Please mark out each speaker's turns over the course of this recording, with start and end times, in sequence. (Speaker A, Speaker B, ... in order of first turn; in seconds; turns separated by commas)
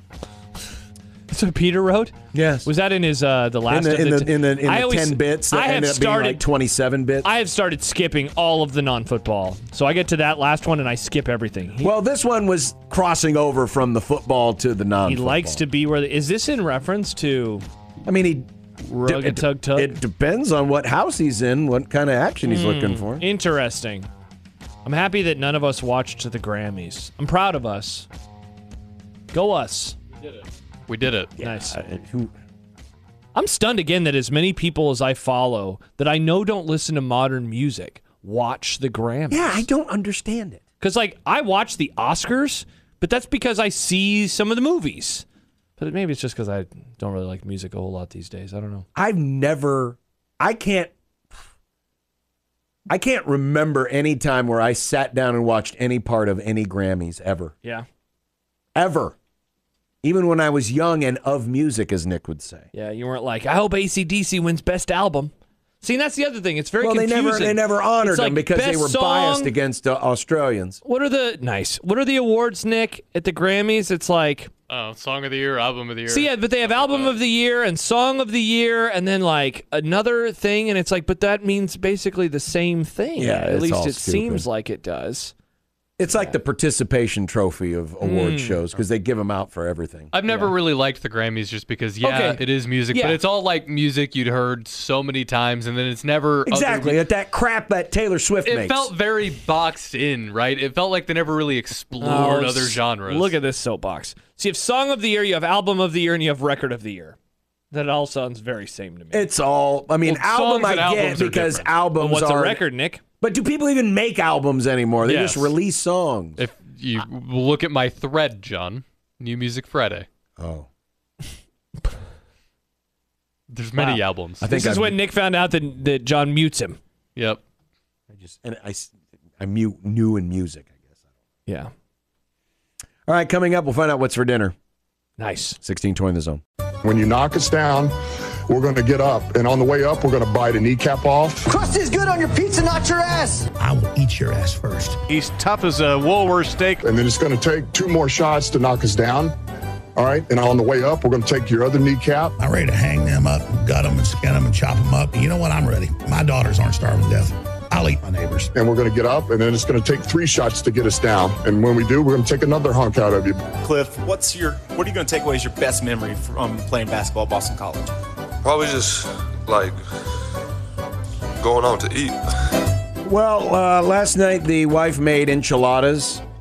Speaker A: 1.3-2.1, Speaker B: 2.3-2.7, Speaker A: 2.6-6.4, Speaker B: 3.7-7.3, Speaker A: 7.2-11.9, Speaker B: 11.8-15.6, Speaker A: 15.0-17.6, Speaker B: 18.1-18.5, Speaker A: 18.8-19.9, Speaker B: 19.0-23.2, Speaker A: 22.4-24.1, Speaker A: 24.8-28.1, Speaker A: 29.3-30.0, Speaker C: 30.9-31.3, Speaker B: 31.4-32.3, Speaker A: 31.4-31.8, Speaker A: 33.3-39.7, Speaker B: 39.3-40.6, Speaker A: 40.8-45.2, Speaker A: 45.8-48.9, Speaker B: 48.9-50.9, Speaker B: 52.9-57.5, Speaker B: 58.8-59.1, Speaker B: 60.0-62.7, Speaker A: 62.7-69.5, Speaker B: 66.8-70.8, Speaker A: 70.8-74.5, Speaker C: 74.7-77.2, Speaker A: 76.1-85.3, Speaker B: 83.2-84.5, Speaker B: 86.0-90.1, Speaker A: 86.1-86.3, Speaker A: 88.0-88.6, Speaker C: 90.1-97.0, Speaker A: 90.3-90.5, Speaker A: 92.0-93.2, Speaker B: 96.5-98.9, Speaker C: 98.4-103.3, Speaker A: 102.0-107.2, Speaker A: 107.7-109.3, Speaker B: 109.1-112.6, Speaker C: 110.0-111.7, Speaker A: 111.9-113.0, Speaker B: 113.2-116.4, Speaker A: 115.0-115.5, Speaker C: 116.4-120.1, Speaker B: 120.4-120.7, Speaker C: 123.5-124.4, Speaker A: 123.8-126.8, Speaker B: 124.4-125.0, Speaker C: 127.2-127.4, Speaker B: 128.1-130.8, Speaker A: 131.4-131.7, Speaker B: 133.1-134.5, Speaker A: 135.2-135.6, Speaker B: 135.6-136.4, Speaker D: 136.8-137.9, Speaker D: 138.5-141.5, Speaker E: 141.5-143.5, Speaker F: 143.5-145.0, Speaker D: 146.8-149.3, Speaker D: 149.9-152.4, Speaker F: 152.4-158.5, Speaker D: 158.5-163.5, Speaker G: 163.6-167.9, Speaker H: 168.4-169.8, Speaker H: 171.4-172.2, Speaker B: 173.0-176.2